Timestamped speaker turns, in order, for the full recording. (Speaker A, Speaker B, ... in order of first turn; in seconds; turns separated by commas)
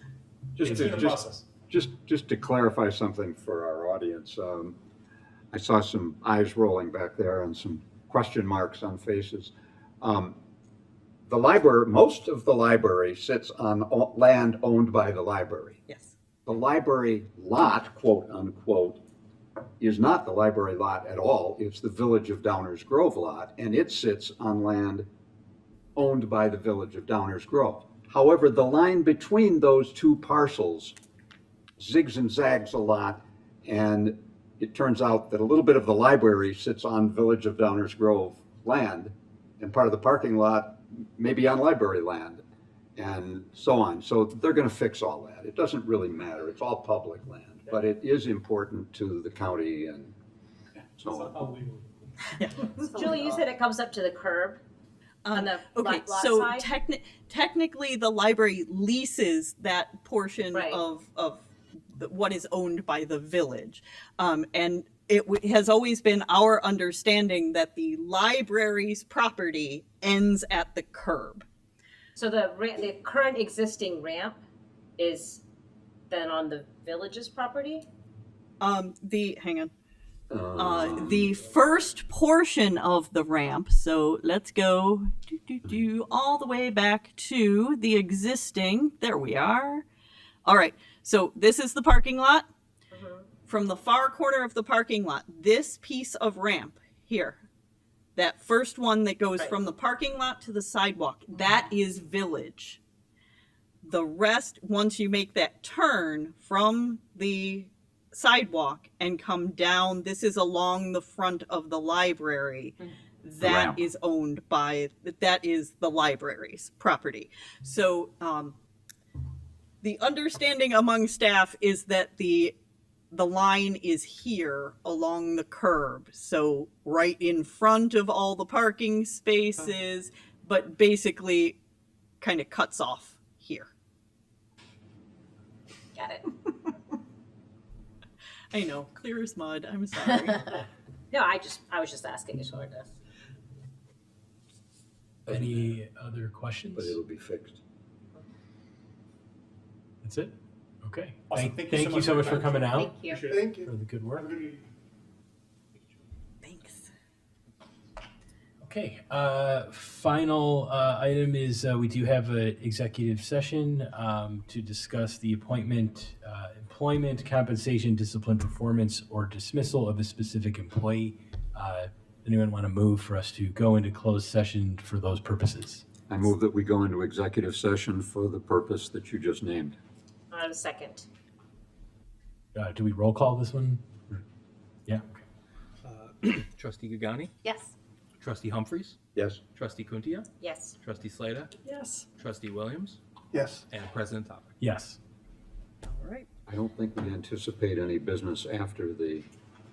Speaker A: 0.6-4.8, Speaker B: 0.8-1.2, Speaker A: 5.5-10.3, Speaker A: 11.3-15.8, Speaker A: 16.4-19.0, Speaker A: 19.8-25.1, Speaker A: 25.9-30.9, Speaker A: 31.8-42.4, Speaker A: 43.0-50.1, Speaker A: 51.0-51.5, Speaker B: 51.1-51.9, Speaker C: 52.4-53.0, Speaker D: 52.8-54.6, Speaker C: 55.2-71.4, Speaker D: 55.3-56.7, Speaker D: 60.5-60.8, Speaker D: 72.2-74.4, Speaker D: 75.0-75.4, Speaker D: 76.1-77.9, Speaker C: 78.6-79.7, Speaker A: 80.3-81.4, Speaker C: 80.6-89.8, Speaker C: 90.4-92.5, Speaker D: 92.9-93.3, Speaker C: 93.5-97.4, Speaker C: 98.2-102.8, Speaker C: 103.8-118.5, Speaker A: 113.4-113.8, Speaker C: 119.8-122.5, Speaker C: 123.1-131.6, Speaker C: 132.2-133.7, Speaker D: 135.9-136.3, Speaker C: 138.5-140.5, Speaker D: 141.1-142.9, Speaker A: 145.3-145.8, Speaker E: 145.3-147.0, Speaker A: 146.8-147.6, Speaker E: 150.0-150.3, Speaker E: 150.8-154.3, Speaker B: 151.3-154.6, Speaker D: 152.7-153.3, Speaker C: 156.4-156.9, Speaker E: 158.6-175.8, Speaker A: 176.1-179.8, Speaker D: 180.3-181.1, Speaker E: 182.5-183.8, Speaker E: 184.9-185.2, Speaker F: 185.8-187.3, Speaker F: 188.2-189.0, Speaker A: 189.1-189.4, Speaker F: 189.5-190.3, Speaker D: 190.4-190.8, Speaker F: 190.8-191.5, Speaker F: 192.2-193.0, Speaker B: 193.3-193.6, Speaker F: 193.7-194.5, Speaker E: 194.6-195.0, Speaker A: 196.5-199.2